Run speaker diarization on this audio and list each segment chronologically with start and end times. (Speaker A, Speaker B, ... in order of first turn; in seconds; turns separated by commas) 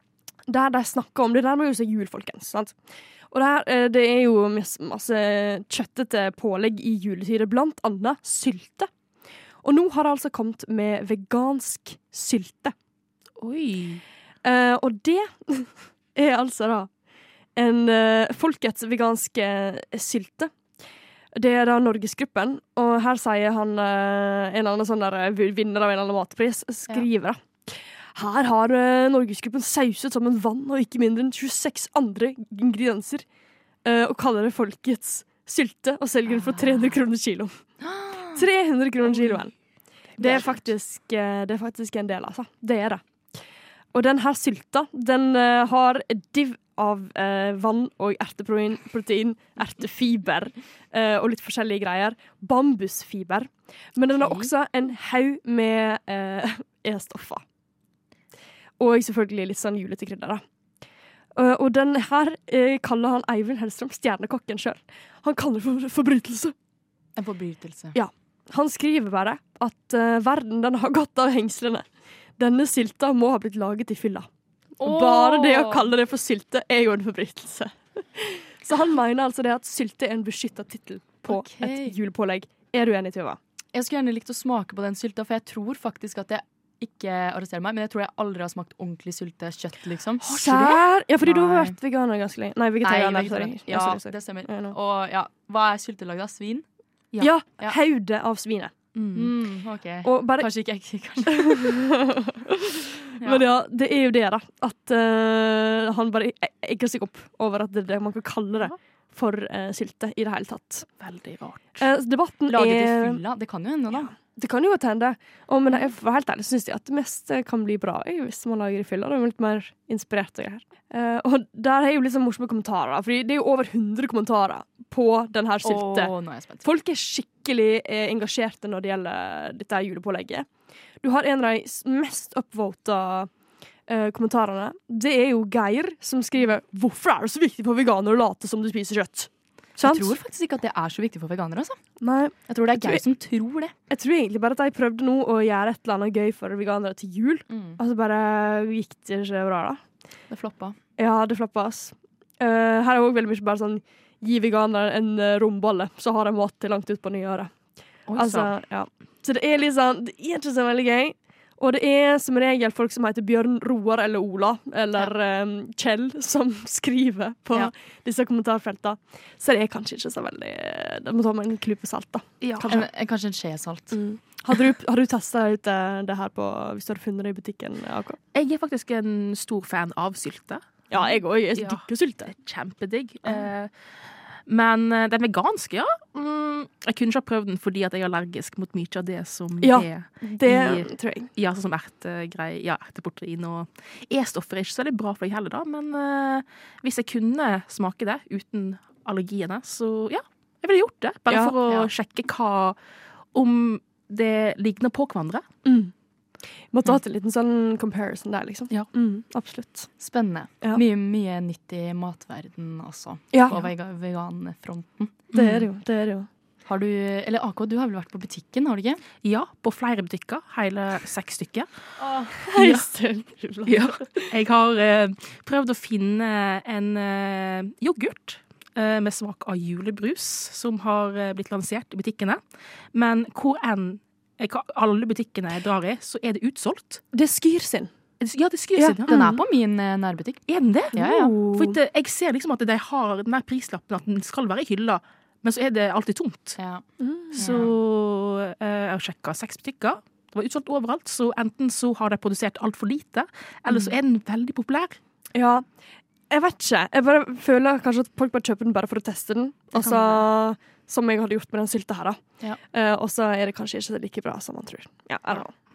Speaker A: 0.5-2.8, Speaker A: 3.3-8.9, Speaker A: 9.6-12.7, Speaker B: 13.4-14.0, Speaker A: 14.4-16.9, Speaker A: 17.6-20.5, Speaker A: 21.4-33.2, Speaker A: 33.9-37.6, Speaker C: 37.8-38.5, Speaker A: 38.3-39.5, Speaker A: 40.2-43.0, Speaker A: 43.9-57.4, Speaker C: 54.2-54.5, Speaker A: 58.8-60.4, Speaker A: 61.4-66.5, Speaker C: 67.2-68.0, Speaker A: 67.9-71.9, Speaker A: 72.4-74.3, Speaker C: 74.8-75.9, Speaker A: 74.8-83.4, Speaker C: 81.2-82.0, Speaker C: 83.7-91.8, Speaker A: 90.2-94.8, Speaker C: 92.8-96.6, Speaker A: 97.2-98.7, Speaker B: 99.0-99.3, Speaker C: 99.1-101.8, Speaker A: 100.0-100.5, Speaker A: 101.3-110.9, Speaker B: 111.0-111.8, Speaker A: 111.8-113.2, Speaker C: 112.5-114.1, Speaker A: 114.0-130.5, Speaker C: 125.6-126.7, Speaker A: 131.0-133.3, Speaker A: 133.9-140.2, Speaker C: 139.8-141.8, Speaker A: 142.0-143.0, Speaker C: 142.5-143.7, Speaker A: 143.9-149.8, Speaker C: 147.5-147.8, Speaker C: 150.3-150.8, Speaker A: 151.0-157.5, Speaker B: 158.1-158.5, Speaker A: 158.2-172.9, Speaker B: 172.4-172.8, Speaker C: 172.7-174.0, Speaker A: 173.9-178.2, Speaker B: 178.3-181.8, Speaker A: 180.9-182.3, Speaker B: 182.3-183.7, Speaker B: 184.5-202.8, Speaker A: 189.6-191.3, Speaker A: 201.3-201.6, Speaker B: 203.3-205.4, Speaker A: 205.7-205.9, Speaker A: 206.7-209.9, Speaker C: 210.0-215.3, Speaker A: 213.3-213.6, Speaker B: 215.3-215.7, Speaker A: 215.3-216.3, Speaker C: 216.7-219.0, Speaker B: 219.2-221.7, Speaker C: 222.0-222.3, Speaker A: 222.4-224.3, Speaker B: 222.6-222.9, Speaker B: 223.7-232.4, Speaker B: 232.9-237.0, Speaker A: 237.1-237.9, Speaker B: 238.2-239.2, Speaker A: 238.8-239.4, Speaker C: 239.1-241.3, Speaker B: 240.5-246.6, Speaker A: 240.9-241.8, Speaker C: 246.6-246.8, Speaker A: 247.0-247.6, Speaker B: 247.3-255.0, Speaker C: 247.4-247.7, Speaker A: 255.3-255.7, Speaker A: 256.3-265.5, Speaker B: 259.8-260.2